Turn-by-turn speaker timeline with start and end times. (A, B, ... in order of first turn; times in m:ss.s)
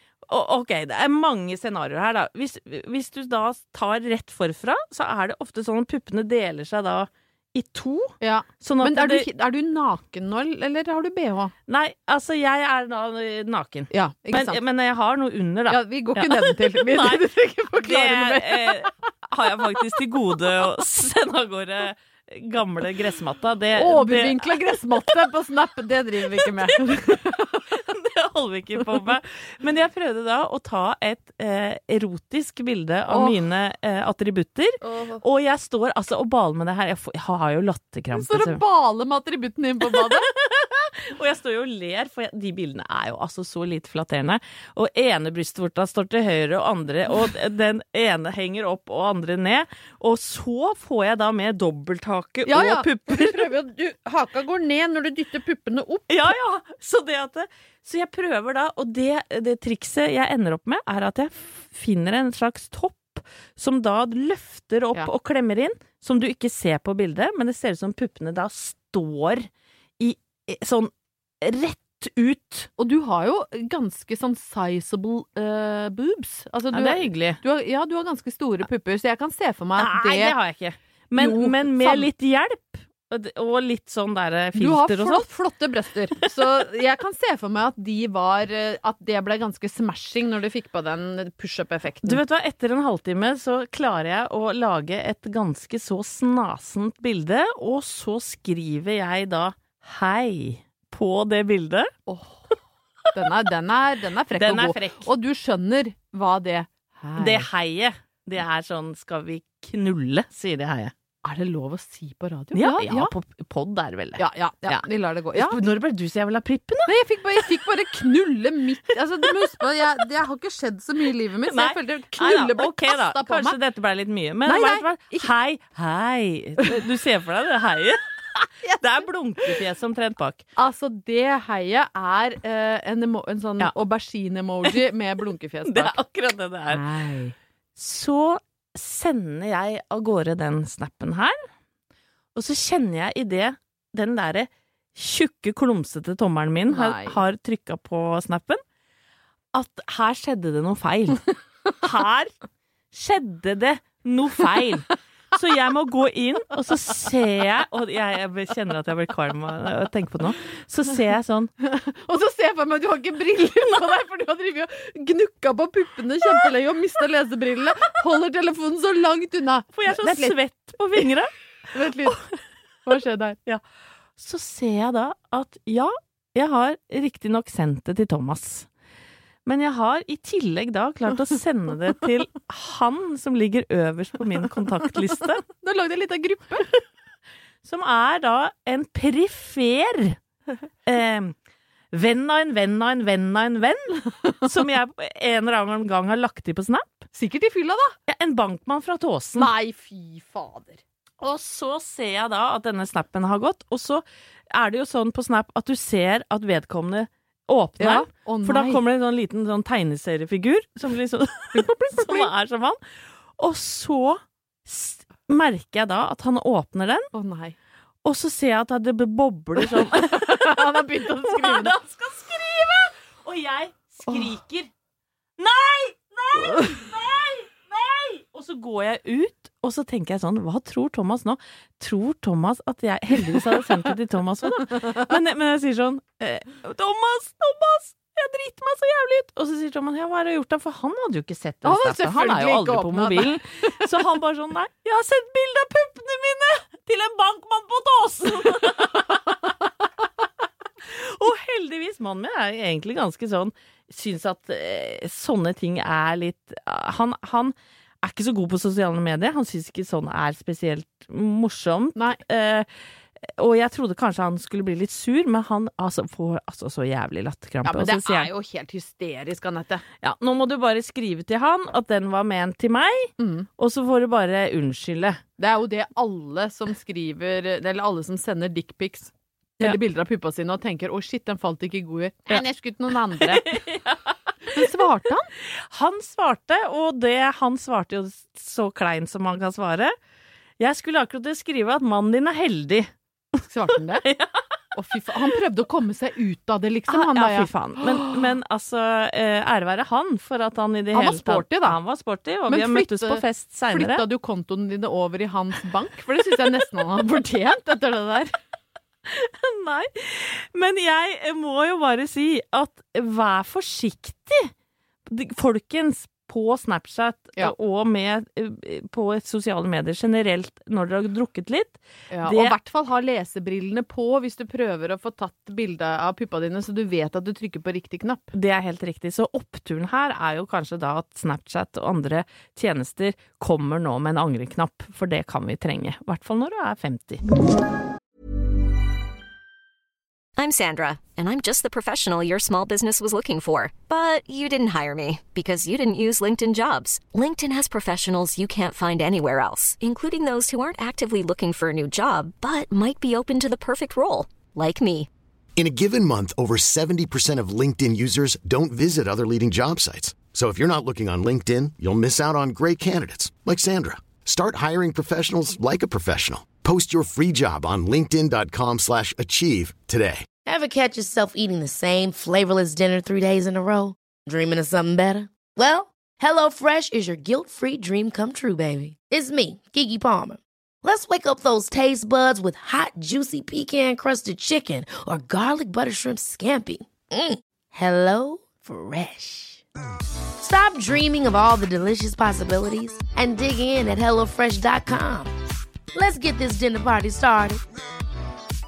0:00.3-0:09.3 A
0:08.2-0:11.5 B
0:11.7-0:17.2 A
0:13.9-0:14.6 B
0:15.7-0:18.9 B
0:17.8-0:24.7 A
0:23.7-0:27.7 B
0:26.4-0:38.6 A
0:33.1-0:33.4 B
0:34.8-0:35.2 B
0:38.1-0:40.3 B
0:39.8-0:53.5 A
0:52.5-0:56.1 B
0:56.1-1:09.5 A
1:10.0-1:10.9 A
1:11.4-1:12.7 A
1:12.8-1:20.4 B
1:16.7-1:17.4 A
1:19.8-1:25.2 A
1:21.2-1:22.1 B
1:24.6-1:32.2 B
1:32.0-1:41.9 A
1:42.1-1:42.5 B
1:43.1-1:47.5 B
1:44.4-1:45.1 A
1:47.2-1:50.9 A
1:51.2-1:53.1 B
1:52.5-1:56.9 A
1:54.2-1:55.6 B
1:56.9-2:03.6 B
2:01.4-2:08.0 A
2:04.5-2:05.3 B
2:08.8-2:10.4 A
2:10.6-2:16.0 B
2:15.6-2:16.8 A
2:16.7-2:17.4 B
2:17.8-2:21.4 A
2:22.4-2:28.6 A
2:26.7-2:27.2 B
2:29.5-2:32.3 A
2:32.9-2:41.5 A
2:41.6-2:50.4 B
2:49.7-2:51.3 A
2:51.7-2:52.2 B
2:52.8-2:53.4 B
2:54.2-2:58.7 A
2:59.5-3:05.4 A
3:05.5-3:06.7 B
3:07.6-3:10.2 A
3:10.9-3:11.4 A
3:11.9-3:17.1 A
3:17.1-3:18.0 B
3:18.1-3:19.5 A
3:19.4-3:20.8 B
3:21.2-3:32.8 A
3:27.8-3:28.8 B
3:31.5-3:32.3 B
3:33.4-3:37.1 A
3:37.1-3:37.6 B
3:38.0-3:44.7 A
3:39.7-3:41.7 B
3:45.4-4:09.4 A
4:01.6-4:03.7 B
4:10.8-4:22.7 A
4:23.4-4:28.3 A
4:27.6-4:29.8 B
4:30.0-4:35.2 A
4:33.2-4:33.5 B
4:35.4-4:43.6 B
4:43.2-4:44.5 A
4:44.5-4:45.3 B
4:45.7-4:49.9 A
4:50.6-4:52.9 A
4:53.5-4:54.0 B
4:54.0-4:54.6 A
4:54.7-4:58.2 B
4:56.9-5:04.0 A
5:00.9-5:01.8 B
5:02.5-5:08.3 B
5:09.1-5:14.5 A
5:15.1-5:22.6 A
5:22.1-5:28.3 B
5:28.3-5:37.2 A
5:40.4-5:55.1 C
5:55.6-6:10.3 D
6:10.4-6:29.6 E
6:30.4-6:35.3 E
6:35.9-6:37.6 E